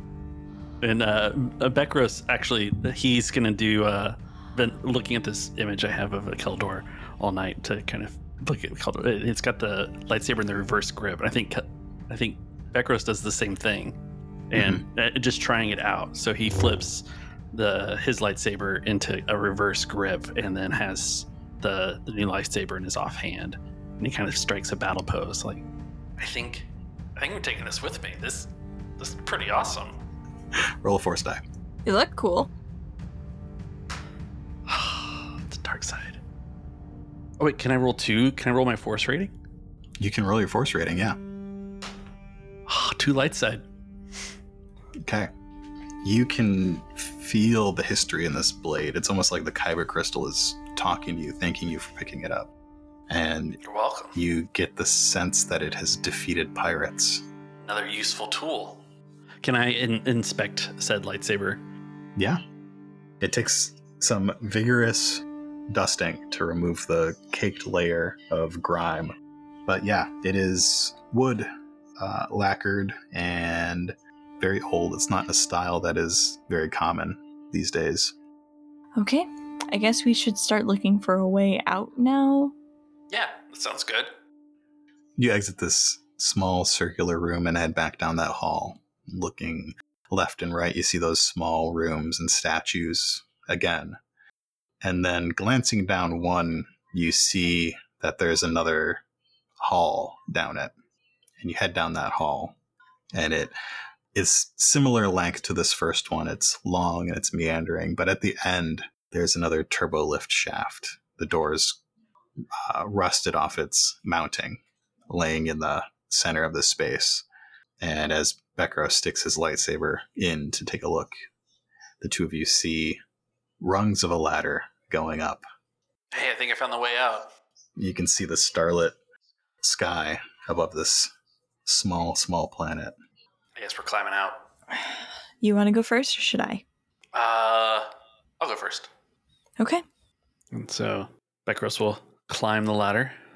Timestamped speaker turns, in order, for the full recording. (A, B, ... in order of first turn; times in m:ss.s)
0:00.8-0:14.0 A
0:14.5-0:25.6 A
0:14.6-0:14.8 B
0:26.2-0:29.9 A
0:30.8-0:31.4 B
0:31.8-0:32.5 C
0:34.7-0:36.2 A
0:37.4-0:39.3 A
0:40.0-0:41.2 B
0:42.7-0:43.6 A
0:45.0-0:45.3 B
0:46.0-0:52.5 B
0:53.1-0:53.6 B
0:53.6-0:54.2 A
0:54.1-0:57.2 B
0:57.6-0:58.8 A
0:59.4-1:01.6 A
1:02.2-1:02.4 B
1:03.2-1:09.1 B
1:09.7-1:18.1 B
1:19.0-1:22.5 C
1:23.1-1:24.1 A
1:25.2-1:34.0 B
1:34.8-1:39.0 B
1:39.6-1:40.7 B
1:41.4-1:42.6 B
1:43.1-1:43.6 B
1:44.1-1:51.8 B
1:52.6-1:57.3 B
1:57.8-2:01.2 B
2:02.0-2:03.0 B
2:03.6-2:05.4 B
2:06.1-2:07.3 A
2:07.8-2:09.0 B
2:09.6-2:11.1 B
2:11.6-2:13.0 B
2:13.6-2:14.4 A
2:15.4-2:16.6 C
2:17.1-2:17.9 A
2:18.4-2:18.9 A
2:20.5-2:23.2 A